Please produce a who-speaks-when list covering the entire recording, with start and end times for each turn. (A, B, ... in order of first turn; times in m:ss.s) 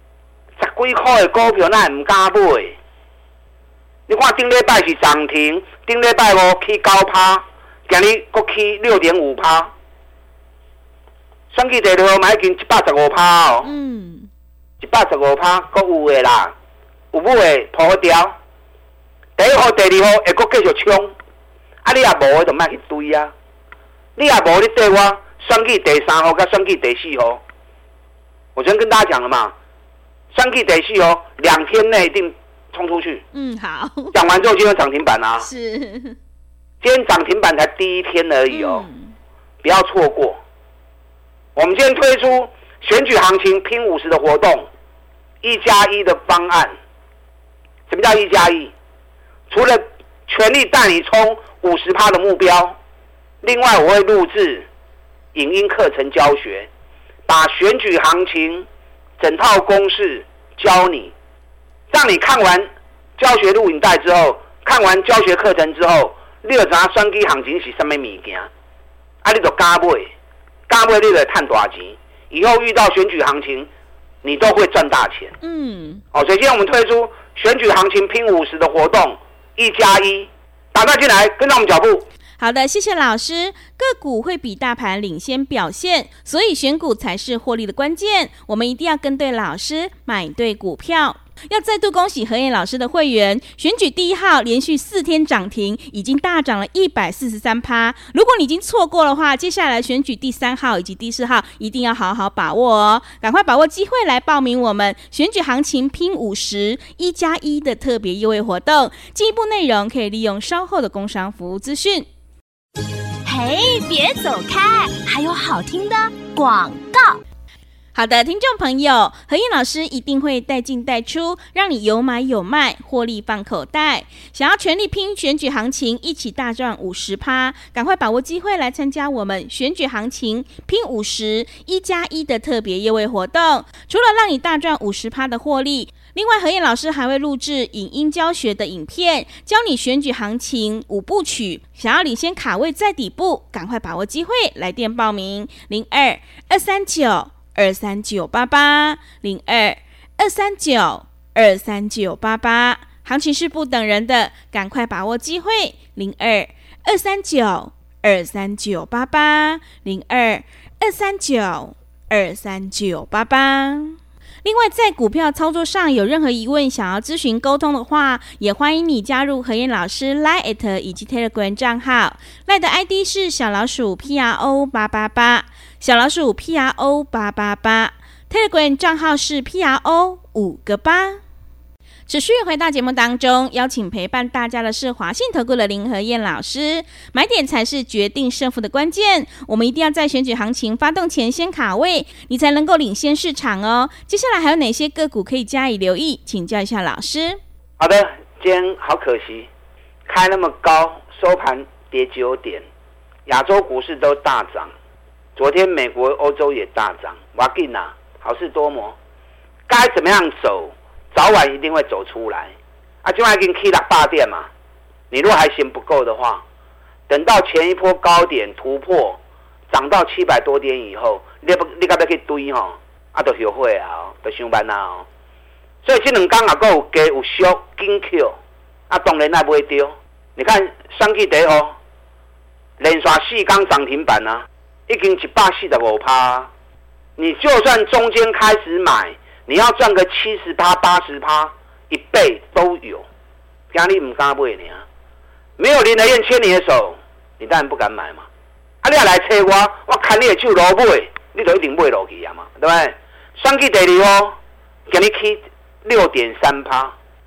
0:00.6-0:02.8 A
0:04.1-0:09.7 A
0:11.5-0:13.7 A
0:13.6-0:14.3 B
0:14.8-0:16.5 A
0:17.1-0:18.4 A
0:19.4-0:21.1 A
0:21.8-0:23.3 A
0:24.2-0:27.4 A
0:28.5-0:29.5 A
0:30.3-0:33.2 A
0:33.3-0:34.1 B
0:34.1-0:35.5 A
0:35.4-0:36.2 B
0:36.8-0:38.8 A
0:38.5-0:39.1 B
0:39.6-0:40.4 A
0:41.6-0:44.7 A
0:45.4-0:46.7 A
0:47.9-0:48.7 A
0:49.5-0:52.8 A
0:53.4-0:54.6 A
0:55.3-0:56.7 A
0:57.3-0:58.6 A
0:59.2-1:01.1 A
1:01.9-1:08.5 A
1:09.2-1:10.1 A
1:10.7-1:13.7 A
1:14.2-1:15.4 A
1:15.4-1:16.0 B
1:16.1-1:22.0 A
1:22.4-1:52.1 B
1:53.2-1:57.2 C
1:57.9-3:01.2 B
3:02.1-3:17.4 B
3:17.8-3:19.5 A
3:20.1-3:22.6 A
3:23.3-3:24.7 A
3:25.4-3:29.0 A
3:29.7-3:32.5 A
3:33.0-3:34.5 A
3:35.1-3:36.4 A
3:37.1-3:39.2 A
3:39.7-3:45.0 A
3:45.8-3:48.4 A
3:48.9-3:51.7 A
3:52.8-3:56.5 A
3:57.2-4:03.0 A
4:03.7-4:04.8 A
4:05.6-4:08.2 A
4:08.8-4:14.4 A
4:14.9-4:16.9 A